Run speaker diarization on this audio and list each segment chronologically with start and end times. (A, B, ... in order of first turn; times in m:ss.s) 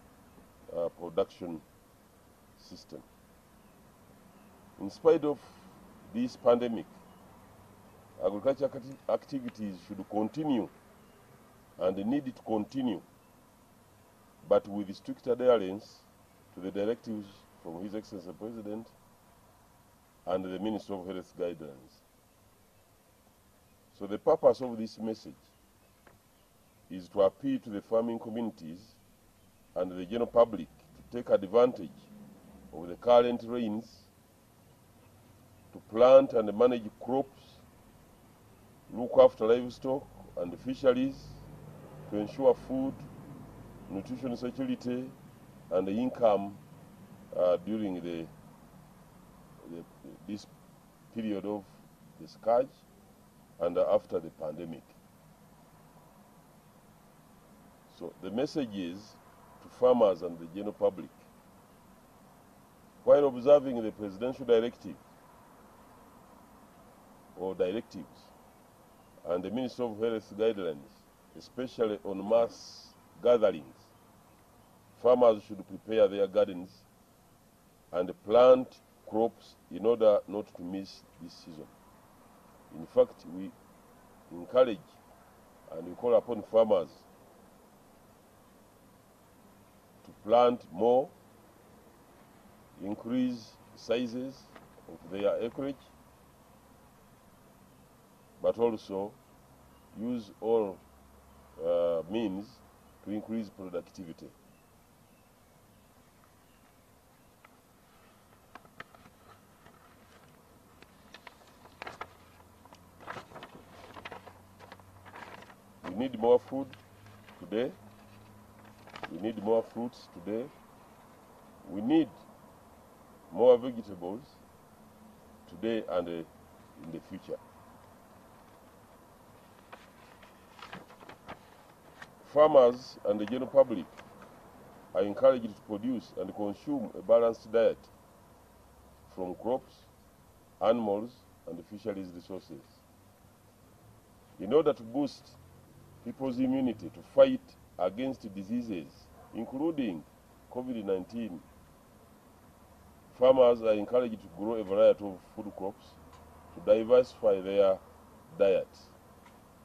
0:00.7-0:01.6 A
0:02.6-0:03.0 A
0:04.8-0:06.9 A
0:08.2-0:10.7 A
0:11.8-0:13.0 A
0:14.4-0:18.9 A
0:20.2-0:22.0 A
0:23.9-0:25.5 A
0:26.9-0:29.0 A
0:29.7-0:32.1 A
0:32.7-0:34.1 A
0:35.7-0:37.6 A
0:38.9-0:41.4 A
0:42.1-0:43.0 A
0:43.9-0:45.2 A
0:45.7-0:46.6 A
0:47.3-0:48.3 A
0:49.6-0:50.5 A
0:51.1-0:52.8 A
0:53.6-0:54.9 A
0:57.9-1:01.3 A
1:03.0-1:05.0 A
1:07.3-1:08.3 A
1:09.2-1:13.9 A
1:14.9-1:16.9 A
1:17.9-1:21.7 A
1:22.7-1:23.5 A
1:24.3-1:25.0 A
1:25.7-1:27.0 A
1:30.0-1:31.1 A
1:32.8-1:35.9 A
1:38.4-1:39.2 A
1:39.9-1:40.8 A
1:41.6-1:44.3 A
1:55.8-1:56.8 A
1:57.4-1:57.8 A
1:59.1-2:00.5 A
2:01.6-2:02.2 A
2:03.3-2:04.4 A
2:05.4-2:07.4 A
2:12.2-2:14.0 A
2:14.9-2:17.9 A
2:19.1-2:19.9 A
2:20.6-2:22.8 A
2:24.4-2:25.4 A
2:26.0-2:31.4 A
2:33.1-2:36.0 A
2:36.5-2:38.9 A